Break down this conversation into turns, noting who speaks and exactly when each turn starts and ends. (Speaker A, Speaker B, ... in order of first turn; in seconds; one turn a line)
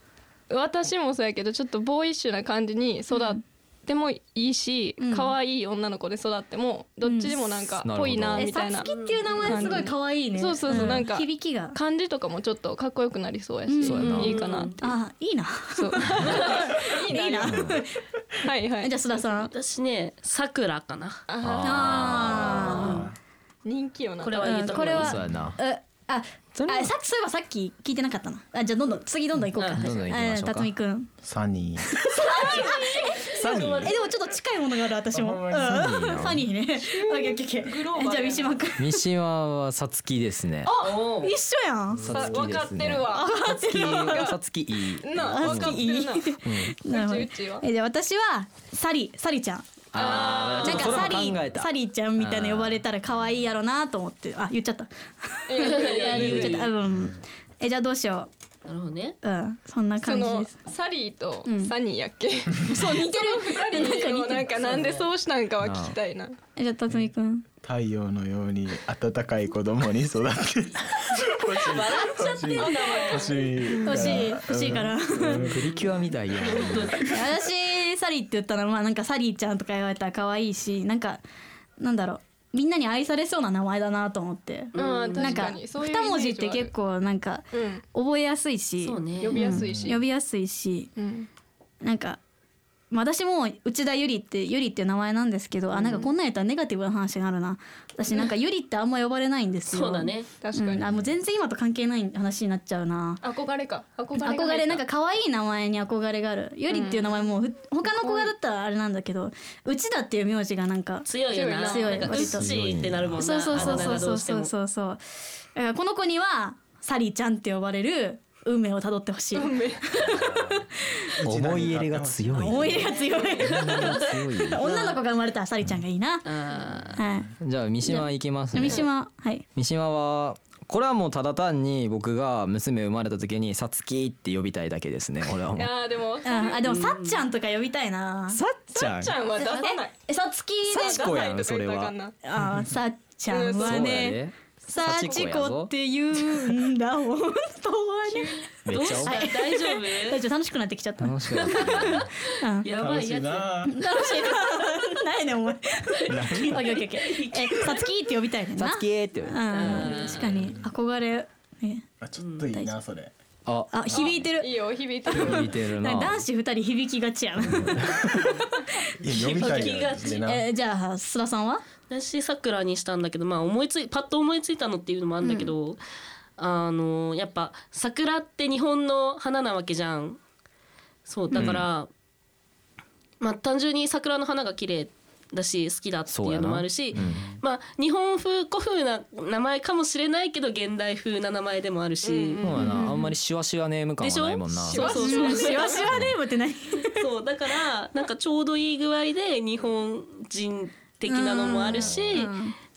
Speaker A: 0.5-8.9
Speaker B: 3.1-3.4
Speaker B: 5.0-5.4
Speaker B: 7.0-7.4
Speaker C: 7.8-8.5
Speaker B: 8.3-11.8
Speaker D: 8.8-9.9
Speaker A: 9.4-14.9
Speaker B: 13.7-14.3
Speaker C: 13.8-14.4
Speaker D: 14.1-14.8
Speaker B: 14.8-17.9
Speaker A: 15.8-17.8
Speaker C: 17.5-17.8
Speaker A: 18.4-19.0
Speaker B: 18.8-19.5
Speaker D: 19.4-21.3
Speaker A: 21.3-22.8
Speaker C: 21.4-22.9
Speaker B: 21.6-23.0
Speaker D: 22.6-23.1
Speaker E: 22.8-23.1
Speaker A: 23.6-24.9
Speaker D: 24.2-25.2
Speaker B: 24.4-31.1
Speaker C: 24.9-25.6
Speaker C: 26.6-26.9
Speaker D: 29.6-29.9
Speaker C: 29.8-30.7
Speaker E: 31.2-32.1
Speaker B: 31.9-33.3
Speaker A: 32.3-33.3
Speaker D: 32.4-34.0
Speaker C: 33.4-33.9
Speaker E: 33.4-33.9
Speaker B: 33.8-39.0
Speaker E: 35.1-36.3
Speaker C: 35.5-36.5
Speaker A: 36.8-38.6
Speaker C: 38.8-40.7
Speaker B: 40.7-42.1
Speaker D: 40.8-41.4
Speaker C: 42.0-45.8
Speaker A: 42.1-44.4
Speaker B: 43.1-44.3
Speaker A: 45.0-47.7
Speaker B: 45.2-49.7
Speaker C: 46.5-46.8
Speaker C: 49.9-52.8
Speaker D: 50.0-51.0
Speaker A: 50.0-50.6
Speaker B: 50.5-58.3
Speaker A: 55.5-56.7
Speaker D: 55.6-56.7
Speaker D: 58.7-59.2
Speaker B: 59.2-60.5
Speaker A: 60.0-66.3
Speaker B: 61.5-61.7
Speaker B: 62.6-64.9
Speaker C: 65.6-66.0
Speaker B: 66.6-67.5
Speaker E: 67.6-75.7
Speaker D: 71.2-73.9
Speaker A: 72.6-74.2
Speaker B: 73.8-75.5
Speaker C: 75.3-77.0
Speaker D: 76.3-77.3
Speaker B: 77.1-81.2
Speaker B: 81.8-90.9
Speaker D: 84.8-85.5
Speaker A: 84.8-86.7
Speaker A: 87.5-87.8
Speaker D: 88.8-89.4
Speaker A: 89.2-90.0
Speaker E: 89.5-89.9
Speaker A: 91.0-91.3
Speaker B: 91.8-92.2
Speaker B: 92.9-103.2
Speaker A: 95.8-96.1
Speaker D: 99.7-100.3
Speaker A: 100.4-100.9
Speaker A: 103.2-104.8
Speaker B: 104.2-111.1
Speaker A: 106.7-107.1
Speaker A: 107.9-108.3
Speaker D: 111.1-114.5
Speaker A: 111.3-112.4
Speaker B: 111.6-112.4
Speaker C: 112.1-114.1
Speaker B: 113.2-115.0
Speaker B: 115.5-120.5
Speaker A: 119.3-120.1
Speaker E: 121.2-123.0
Speaker C: 121.2-124.7
Speaker B: 122.4-126.3
Speaker D: 123.6-123.9
Speaker D: 124.6-125.0
Speaker D: 126.2-127.0
Speaker B: 127.0-127.3
Speaker C: 127.4-128.9
Speaker B: 127.8-129.4
Speaker C: 129.6-135.8
Speaker A: 135.5-136.7
Speaker B: 136.2-138.4
Speaker D: 136.7-137.2
Speaker C: 138.3-139.2
Speaker A: 138.8-139.9
Speaker D: 139.4-139.7
Speaker B: 139.4-141.0
Speaker C: 140.7-141.9
Speaker A: 140.8-142.1
Speaker B: 142.2-148.5
Speaker E: 142.4-142.7
Speaker A: 143.3-143.9
Speaker C: 143.6-145.7
Speaker A: 148.1-148.6
Speaker C: 148.7-149.2
Speaker D: 148.7-150.2
Speaker B: 149.1-152.7
Speaker C: 151.0-152.1
Speaker D: 151.5-154.4
Speaker E: 152.8-153.8
Speaker B: 153.7-161.8
Speaker D: 156.0-157.9
Speaker C: 156.1-156.7
Speaker C: 158.6-159.9
Speaker D: 159.5-160.5
Speaker A: 159.9-160.2
Speaker E: 160.3-160.7
Speaker E: 162.0-163.1
Speaker D: 162.2-162.5
Speaker C: 163.5-164.2
Speaker B: 163.7-164.5
Speaker A: 164.0-165.5
Speaker C: 165.1-166.2
Speaker B: 165.1-168.7
Speaker C: 167.6-167.9
Speaker E: 169.0-170.5
Speaker D: 169.1-170.2
Speaker B: 169.3-171.6
Speaker D: 171.9-175.8
Speaker B: 175.2-175.5
Speaker D: 176.4-180.2
Speaker D: 181.1-181.9
Speaker C: 181.3-181.7
Speaker D: 183.2-192.4
Speaker C: 186.1-187.3
Speaker A: 192.0-192.9
Speaker C: 192.4-195.0
Speaker B: 192.7-193.1
Speaker D: 194.0-195.9
Speaker A: 194.7-195.9
Speaker B: 195.0-197.1
Speaker D: 196.8-202.3
Speaker B: 201.1-202.6